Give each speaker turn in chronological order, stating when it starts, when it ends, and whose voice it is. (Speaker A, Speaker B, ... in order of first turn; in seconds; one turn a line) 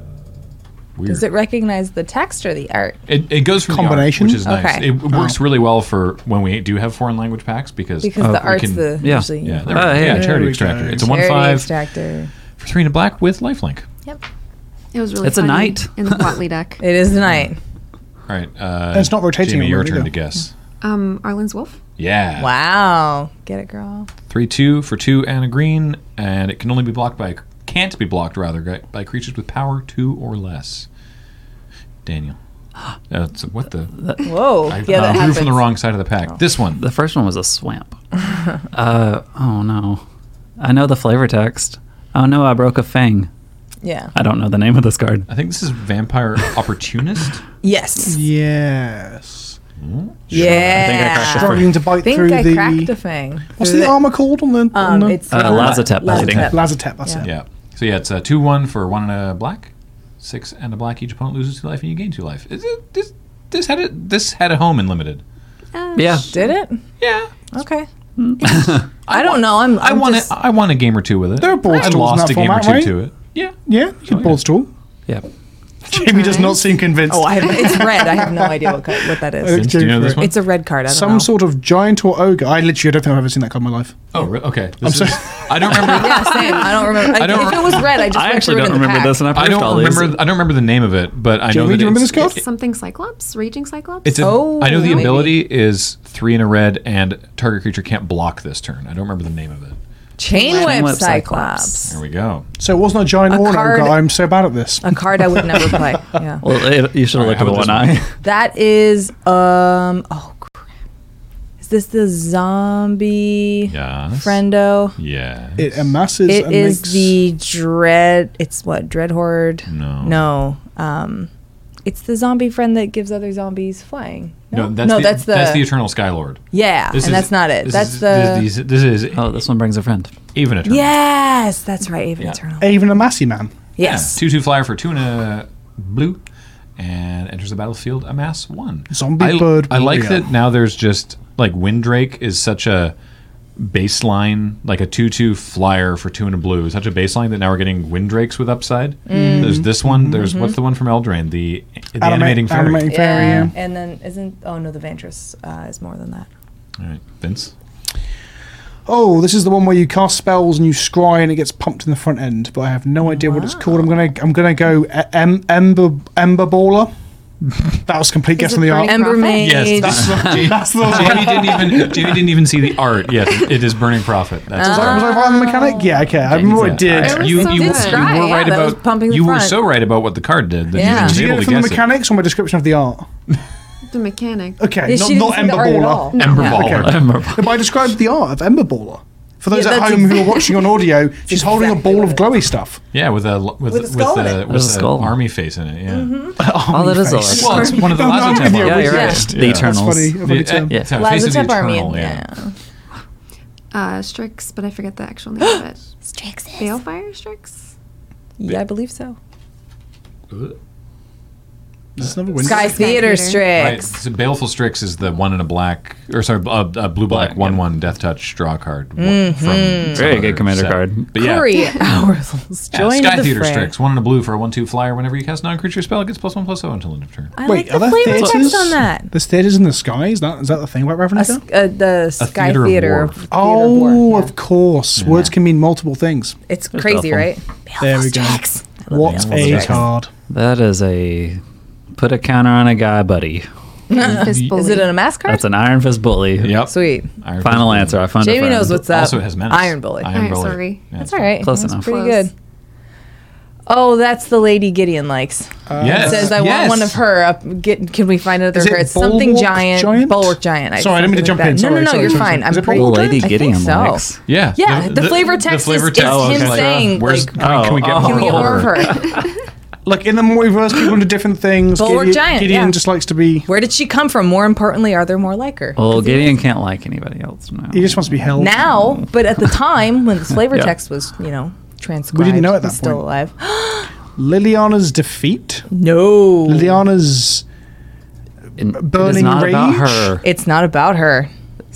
Speaker A: 1.0-1.3
Speaker B: 1.1-3.0
Speaker A: 3.1-11.7
Speaker C: 3.6-4.5
Speaker B: 4.4-4.9
Speaker C: 5.1-5.4
Speaker B: 8.0-9.8
Speaker D: 8.2-10.3
Speaker C: 9.8-11.1
Speaker B: 11.0-12.3
Speaker A: 12.6-13.9
Speaker E: 14.9-16.8
Speaker D: 15.2-16.3
Speaker B: 16.8-17.6
Speaker A: 18.3-20.5
Speaker C: 18.9-20.1
Speaker E: 20.8-21.8
Speaker A: 22.0-22.5
Speaker B: 22.4-24.1
Speaker A: 24.3-30.9
Speaker A: 32.0-32.4
Speaker A: 33.1-36.8
Speaker D: 34.0-35.4
Speaker B: 34.2-35.7
Speaker D: 36.8-40.0
Speaker D: 40.6-43.3
Speaker B: 43.8-44.1
Speaker D: 44.1-45.3
Speaker A: 45.3-47.4
Speaker B: 47.6-48.2
Speaker C: 48.1-49.6
Speaker A: 49.8-51.2
Speaker B: 50.3-54.0
Speaker D: 50.3-51.7
Speaker C: 51.2-52.9
Speaker C: 53.6-57.3
Speaker B: 54.7-57.3
Speaker D: 55.3-56.6
Speaker A: 55.5-56.4
Speaker A: 57.2-65.2
Speaker E: 65.7-66.5
Speaker D: 66.0-66.3
Speaker B: 66.3-66.8
Speaker A: 67.0-67.3
Speaker B: 67.5-67.9
Speaker D: 68.2-68.9
Speaker B: 69.1-70.3
Speaker A: 69.1-73.6
Speaker C: 71.4-72.9
Speaker C: 73.7-74.7
Speaker C: 75.8-80.3
Speaker B: 76.3-76.5
Speaker B: 77.1-81.3
Speaker A: 79.5-80.4
Speaker C: 80.9-84.2
Speaker A: 84.1-87.9
Speaker C: 84.8-86.2
Speaker B: 85.8-89.2
Speaker D: 87.9-90.2
Speaker A: 89.3-92.4
Speaker C: 91.5-92.4
Speaker E: 92.2-95.0
Speaker A: 94.0-99.8
Speaker B: 94.2-95.4
Speaker B: 100.2-102.0
Speaker D: 100.3-101.7
Speaker A: 101.9-102.5
Speaker C: 102.6-105.8
Speaker B: 103.3-104.1
Speaker B: 104.8-106.4
Speaker D: 106.4-108.1
Speaker A: 107.1-108.0
Speaker B: 108.2-110.7
Speaker B: 111.6-115.0
Speaker A: 113.7-114.4
Speaker A: 115.0-115.7
Speaker C: 115.6-117.2
Speaker B: 116.3-121.3
Speaker A: 119.7-120.2
Speaker B: 121.8-125.7
Speaker A: 124.5-126.4
Speaker B: 126.5-128.5
Speaker A: 126.9-129.2
Speaker D: 129.1-130.1
Speaker A: 130.3-130.9
Speaker B: 130.7-132.8
Speaker C: 132.6-133.5
Speaker B: 133.8-134.2
Speaker A: 133.8-136.2
Speaker A: 136.8-142.9
Speaker C: 138.9-140.3
Speaker A: 143.6-153.5
Speaker B: 149.1-149.7
Speaker C: 149.1-150.3
Speaker B: 150.2-150.6
Speaker C: 152.0-153.5
Speaker B: 152.9-156.3
Speaker A: 156.8-157.5
Speaker C: 158.9-166.9
Speaker B: 163.1-163.8
Speaker C: 167.7-169.0
Speaker E: 168.3-169.8
Speaker B: 168.8-170.3
Speaker A: 169.4-175.1
Speaker C: 169.9-172.3
Speaker B: 174.6-176.1
Speaker C: 174.6-177.5
Speaker A: 176.3-181.8
Speaker D: 176.5-176.8
Speaker E: 176.9-178.2
Speaker B: 177.0-179.6
Speaker B: 180.7-181.2
Speaker C: 180.7-183.1
Speaker E: 183.9-184.6
Speaker C: 184.6-192.8
Speaker B: 184.9-186.5
Speaker E: 186.1-186.7
Speaker A: 186.2-187.1
Speaker D: 186.6-187.6
Speaker B: 189.5-192.3
Speaker A: 192.9-196.4
Speaker B: 193.7-194.5
Speaker D: 194.5-195.2
Speaker B: 195.9-196.4
Speaker C: 196.4-200.8
Speaker D: 196.6-200.9
Speaker A: 197.2-202.2
Speaker B: 197.5-199.3
Speaker B: 200.9-202.5
Speaker E: 203.7-205.8
Speaker B: 205.4-206.8
Speaker E: 206.6-207.6
Speaker B: 208.4-209.2
Speaker A: 210.3-210.6
Speaker C: 212.0-213.0
Speaker E: 212.4-213.6
Speaker B: 212.4-213.9
Speaker A: 213.5-221.5
Speaker D: 217.1-217.6
Speaker B: 219.0-220.0
Speaker D: 219.9-221.1
Speaker B: 221.1-223.7
Speaker A: 222.7-227.3
Speaker B: 227.3-229.1
Speaker C: 227.4-231.4
Speaker D: 228.1-228.5
Speaker B: 231.1-234.3
Speaker A: 232.2-233.2
Speaker C: 233.3-236.4
Speaker A: 235.0-235.3
Speaker B: 236.5-239.8
Speaker D: 236.7-237.3
Speaker C: 237.8-240.1
Speaker A: 239.0-239.9
Speaker D: 240.3-241.4
Speaker D: 241.9-243.5
Speaker B: 243.9-245.4
Speaker E: 243.9-245.0
Speaker D: 245.3-246.6
Speaker A: 246.4-248.1
Speaker B: 246.6-247.1
Speaker D: 247.4-248.8
Speaker B: 248.2-250.1
Speaker A: 248.7-251.4
Speaker E: 250.1-250.9
Speaker B: 251.0-252.3
Speaker D: 251.4-251.9
Speaker E: 251.7-252.3
Speaker B: 253.7-264.1
Speaker C: 255.7-256.4
Speaker A: 255.8-257.0
Speaker C: 258.5-263.3
Speaker D: 262.7-264.2
Speaker A: 264.3-269.0
Speaker B: 264.6-269.2
Speaker D: 266.0-269.2
Speaker E: 269.0-269.3
Speaker C: 269.9-273.5
Speaker B: 271.8-272.8
Speaker B: 273.5-276.4
Speaker D: 275.8-278.3
Speaker C: 277.7-278.7
Speaker B: 278.4-283.9
Speaker C: 282.1-283.0
Speaker C: 284.1-285.7
Speaker B: 285.7-286.8
Speaker C: 286.5-287.4
Speaker D: 288.6-290.2
Speaker C: 288.7-290.1
Speaker B: 290.2-291.3